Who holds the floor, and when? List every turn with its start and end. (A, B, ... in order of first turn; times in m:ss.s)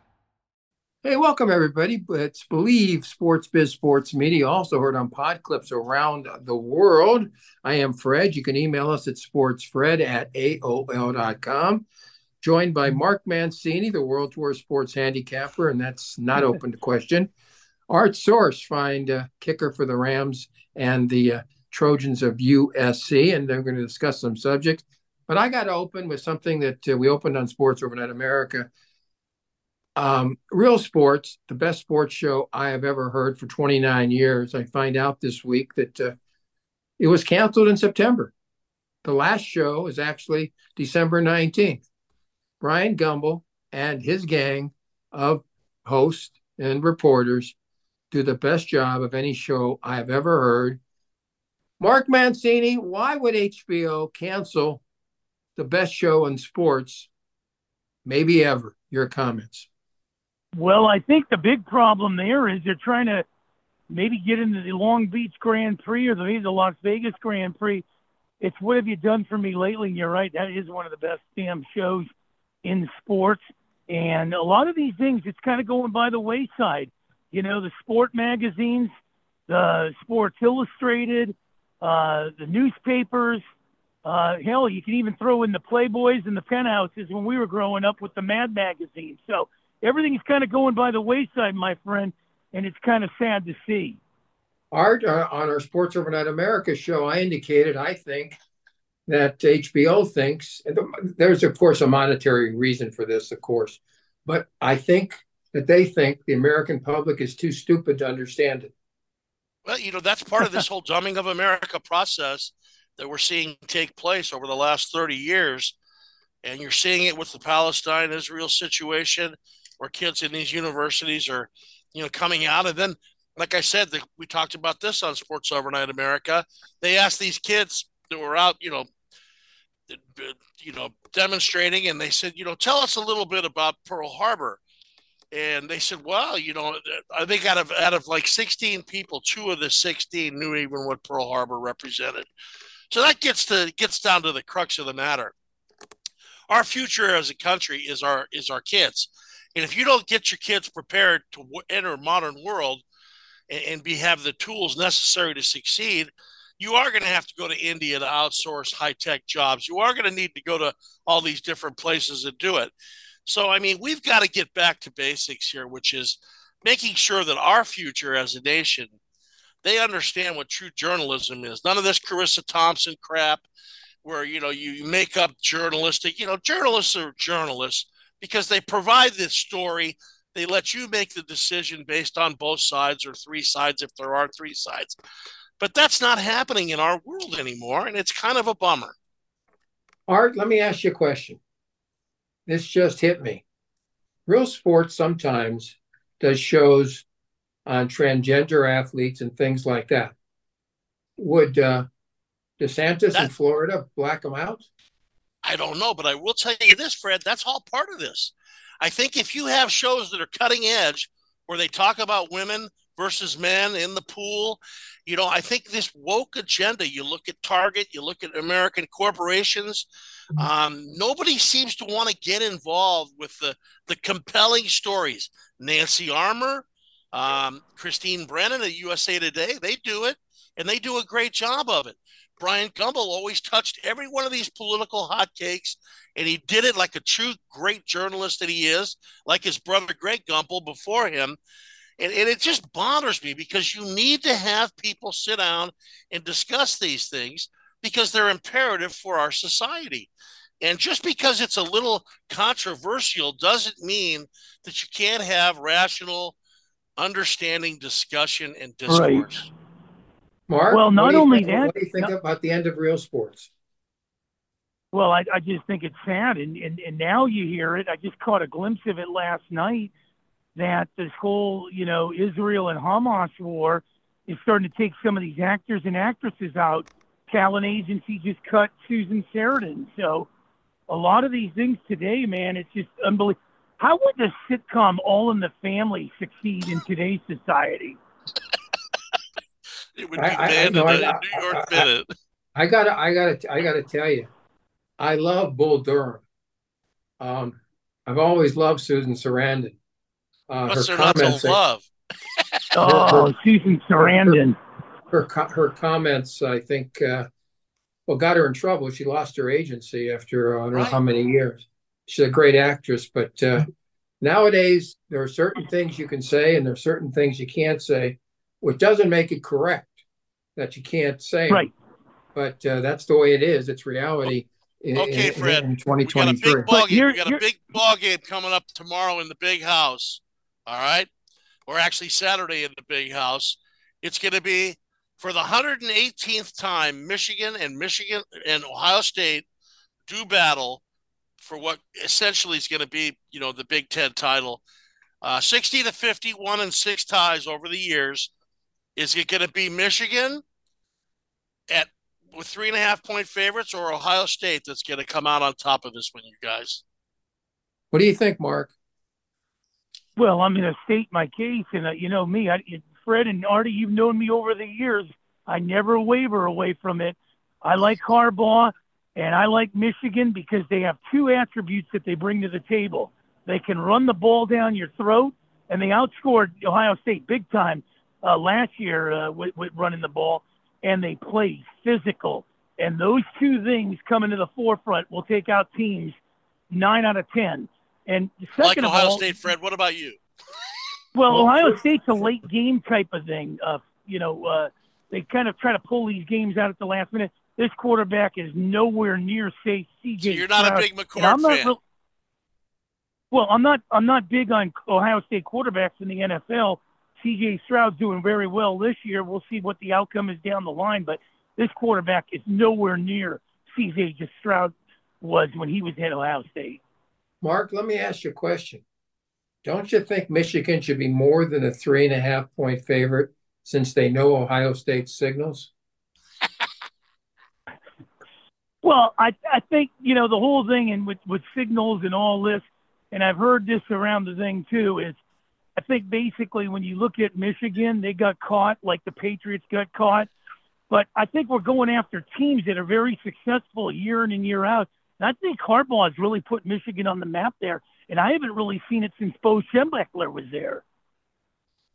0:01.0-0:11.9 A
0:12.4-0:17.3 A
0:17.9-0:28.7 A
0:30.0-0:36.2 A
0:37.0-0:38.3 A
0:39.0-0:41.8 A
0:42.6-0:47.6 A
0:48.1-0:50.8 A
0:51.8-0:54.8 A
0:55.6-0:57.1 A
0:58.0-0:59.7 A
1:00.5-1:03.2 B
1:03.9-1:07.8 B
1:08.4-1:12.1 B
1:12.6-1:18.9 B
1:19.5-1:23.4 B
1:24.0-1:34.0 B
1:34.7-1:38.4 A
1:39.1-1:48.7 A
1:49.6-1:55.8 C
1:56.4-2:08.9 C
2:09.9-2:14.6 C
2:15.3-2:22.3 C
2:22.9-2:25.3 C
2:26.5-2:32.8 C
2:33.5-2:42.7 C
2:43.2-2:48.9 C
2:49.6-2:53.4 C
2:54.0-3:05.0 C
3:05.6-3:08.9 C
3:10.1-3:11.4 A
3:12.5-3:13.4 A
3:14.3-3:17.0 A
3:17.6-3:20.1 A
3:21.2-3:21.9 A
3:22.6-3:24.7 A
3:25.4-4:01.4 C
4:02.0-4:10.1 C
4:10.6-4:16.4 C
4:17.0-4:19.5 C
4:18.9-4:19.3 B
4:20.5-4:23.5 A
4:20.7-4:22.1 B
4:24.9-4:29.9 B
4:30.5-4:40.3 B
4:40.9-4:48.0 B
4:50.0-4:52.1 C
4:50.2-4:51.9 A
4:52.6-4:54.3 A
4:55.0-4:56.2 A
4:57.2-4:59.8 A
5:00.5-5:01.6 A
5:00.7-5:01.9 C
5:02.8-5:04.6 B
5:02.8-5:03.3 A
5:04.0-5:04.4 A
5:05.1-5:07.3 A
5:08.1-5:13.7 A
5:10.7-5:11.0 C
5:14.2-5:20.0 A
5:20.6-5:21.7 A
5:22.3-5:26.7 A
5:25.0-5:31.1 C
5:26.7-5:27.4 B
5:31.7-5:39.4 C
5:40.1-5:40.8 C
5:41.4-5:44.6 C
5:45.2-5:48.3 C
5:49.0-5:50.4 C
5:51.7-5:56.8 C
5:57.9-5:58.7 A
6:00.2-6:26.2 B
6:26.7-6:29.3 B
6:28.6-6:30.2 C
6:31.1-6:41.8 B
6:31.3-6:31.6 A
6:40.2-6:41.7 C
6:43.3-6:56.8 B
6:57.4-6:58.8 A
6:59.6-7:05.7 A
7:08.8-7:15.2 B
7:15.8-7:20.3 B
7:20.9-7:30.8 B